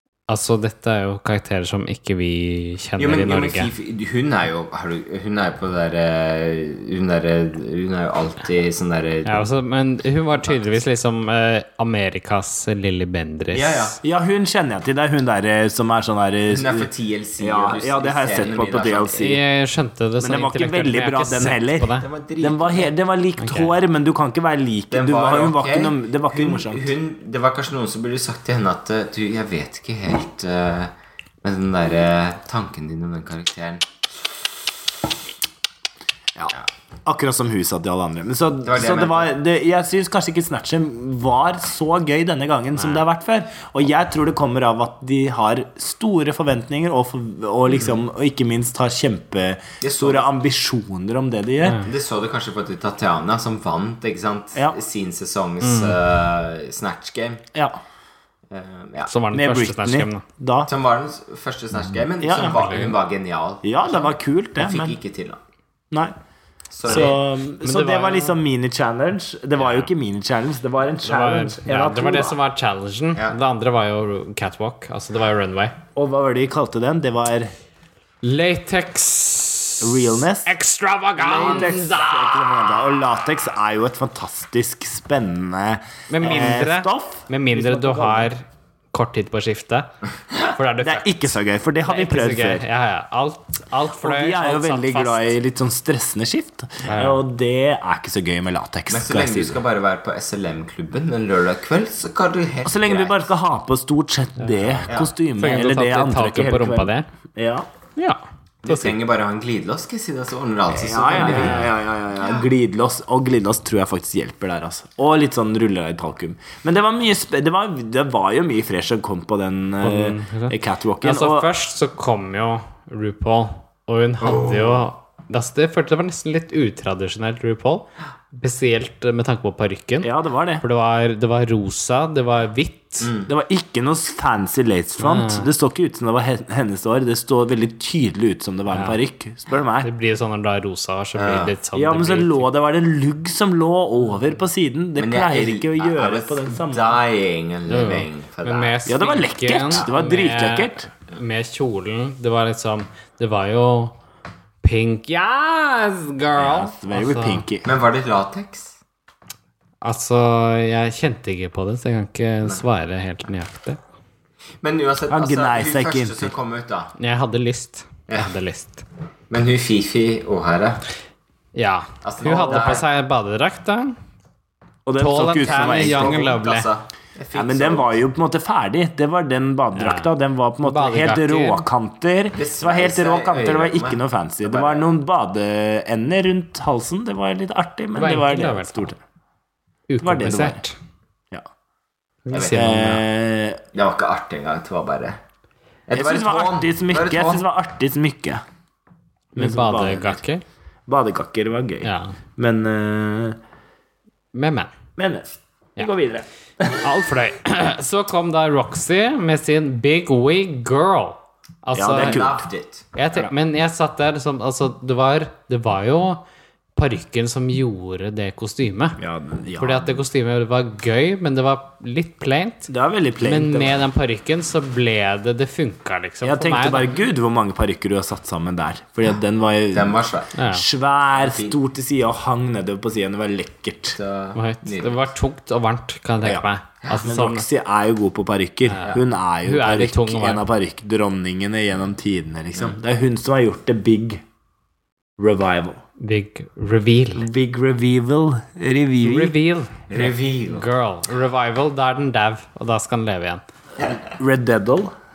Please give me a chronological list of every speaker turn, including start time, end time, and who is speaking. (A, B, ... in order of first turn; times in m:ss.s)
0:00.3-0:03.7 A
0:03.0-0:09.5 B
0:09.2-0:14.0 A
0:13.5-0:14.0 B
0:14.0-0:19.4 C
0:16.5-0:19.3 B
0:19.2-0:22.1 A
0:20.2-0:26.9 C
0:22.0-0:22.9 B
0:23.4-0:23.7 A
0:24.9-0:33.8 B
0:36.4-0:36.6 B
0:37.0-0:51.9 C
0:38.6-0:39.3 B
0:49.8-0:50.4 B
0:51.6-0:51.9 A
0:51.8-0:57.4 B
0:55.6-0:56.0 A
0:57.5-0:57.8 C
0:58.5-0:59.1 B
0:59.1-1:00.2 A
0:59.3-1:00.7 C
1:00.7-1:05.4 B
1:02.2-1:02.6 C
1:02.4-1:03.0 A
1:03.6-1:05.0 C
1:06.7-1:07.2 B
1:06.8-1:12.4 C
1:06.9-1:08.4 A
1:11.0-1:15.8 A
1:15.9-1:17.5 C
1:18.2-1:22.5 A
1:19.8-1:20.5 C
1:21.2-1:28.3 C
1:26.1-1:35.3 A
1:30.8-1:32.6 C
1:34.0-1:39.6 C
1:36.8-1:37.2 A
1:38.9-1:43.3 B
1:42.6-1:47.7 C
1:44.4-1:47.1 A
1:44.9-1:45.1 B
1:48.0-1:48.9 A
1:48.6-1:51.7 B
1:50.7-2:01.5 C
1:51.2-1:51.7 A
1:59.8-2:13.1 A
2:04.2-2:04.8 B
2:10.0-2:10.6 C
2:13.0-2:13.3 B
2:13.3-2:19.9 C
2:15.0-2:15.5 A
2:18.7-2:19.0 A
2:19.8-2:22.5 A
2:21.2-2:21.5 B
2:21.7-2:27.0 C
2:25.0-2:28.8 B
2:27.7-2:34.0 A
2:28.8-2:30.9 C
2:34.6-2:37.4 A
2:36.4-2:37.7 C
2:37.6-2:38.8 B
2:39.8-2:43.8 A
2:44.6-2:46.9 B
2:45.1-2:46.3 C
2:47.0-2:48.8 A
2:49.3-2:50.8 B
2:51.5-2:54.0 A
2:52.0-2:52.8 B
2:52.3-2:52.8 C
2:54.8-2:56.3 C
2:55.0-2:56.7 A
2:55.4-2:58.0 B
2:57.3-3:09.0 C
2:59.7-3:00.1 A
3:00.6-3:01.6 A
3:02.3-3:04.9 B
3:07.9-3:08.9 A
3:09.9-3:10.8 A
3:10.0-3:10.6 C
3:12.2-3:13.0 A
3:12.3-3:12.6 B
3:12.5-3:13.6 C
3:13.7-3:15.2 B
3:15.9-3:17.4 B
3:15.9-3:18.4 C
3:19.3-3:20.2 C
3:19.3-3:20.4 A
3:20.9-3:23.4 C
3:21.8-3:22.2 A
3:24.3-3:24.7 A
3:25.0-3:26.9 C
3:26.7-3:32.3 A
3:31.7-3:32.4 C
3:31.9-3:32.8 B
3:32.9-3:36.2 A
3:36.8-3:39.0 A
3:39.0-3:40.0 C
3:39.6-3:46.9 A
3:42.7-3:43.8 C
3:46.2-3:54.0 C
3:49.7-3:50.3 B
3:50.3-3:50.6 A
3:51.1-3:51.6 B
3:54.0-3:55.1 B
3:54.3-3:57.5 A
3:57.0-4:04.2 C
3:58.7-4:00.4 A
4:05.2-4:05.8 C
4:06.0-4:07.3 A
4:07.2-4:09.3 C
4:09.0-4:13.4 A
4:09.9-4:10.7 B
4:14.1-4:14.9 C